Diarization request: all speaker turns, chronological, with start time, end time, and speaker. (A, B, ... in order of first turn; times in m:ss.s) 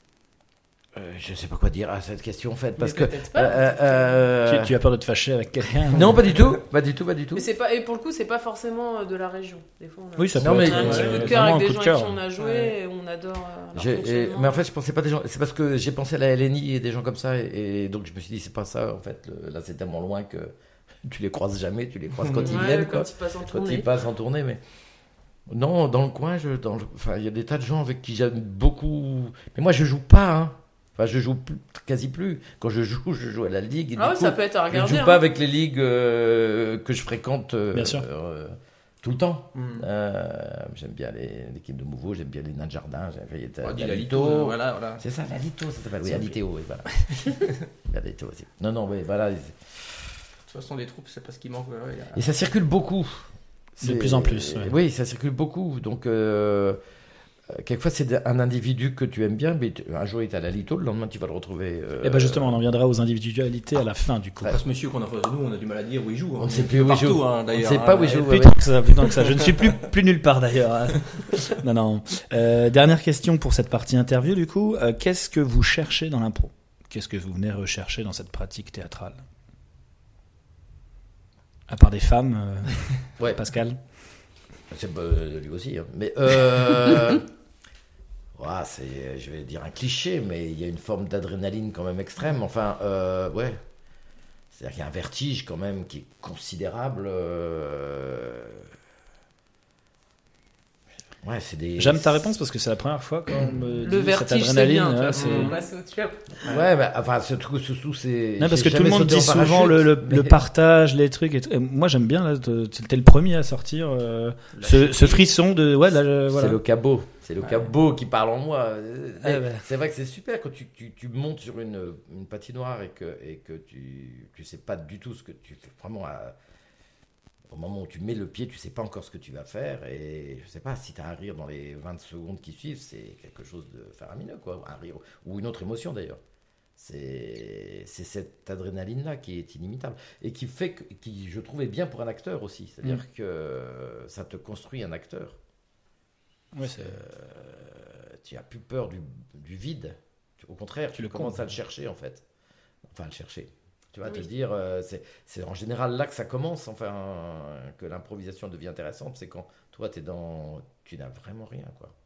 0:00.9-0:04.8 A
0:02.8-0:04.3 B
0:04.4-0:06.3 C
0:05.9-0:07.4 A
0:07.3-0:14.6 B
0:10.2-0:12.2 C
0:10.4-0:11.2 A
0:10.6-0:11.5 D
0:12.4-0:12.7 D
0:13.7-0:24.6 A
0:22.2-0:22.7 D
0:22.4-0:23.9 B
0:25.5-0:49.8 A
0:34.0-0:35.2 B
0:37.7-0:38.0 C
0:39.5-0:39.9 D
0:43.6-0:45.0 D
0:46.0-0:46.3 D
0:47.0-0:47.5 D
0:50.4-0:52.3 D
0:52.1-0:56.8 A
0:53.8-0:54.7 C
0:57.5-1:02.6 A
1:02.0-1:04.5 C
1:04.4-1:08.3 D
1:06.4-1:08.8 A
1:08.1-1:19.2 C
1:09.2-1:09.6 D
1:21.7-1:23.8 C
1:24.7-1:27.2 A
1:28.3-1:33.6 A
1:34.5-1:38.7 A
1:41.2-1:42.3 A
1:41.8-1:45.6 C
1:43.7-1:46.4 B
1:45.1-1:45.6 D
1:46.4-1:50.4 A
1:48.4-1:56.6 C
1:54.5-1:55.3 D
1:56.3-2:06.3 A
1:57.4-1:57.7 D
1:59.2-1:59.6 C
2:07.5-2:16.2 A
2:16.8-2:25.4 A
2:26.5-2:27.0 C
2:26.6-2:32.2 A
2:31.0-2:31.5 C
2:32.9-2:41.9 A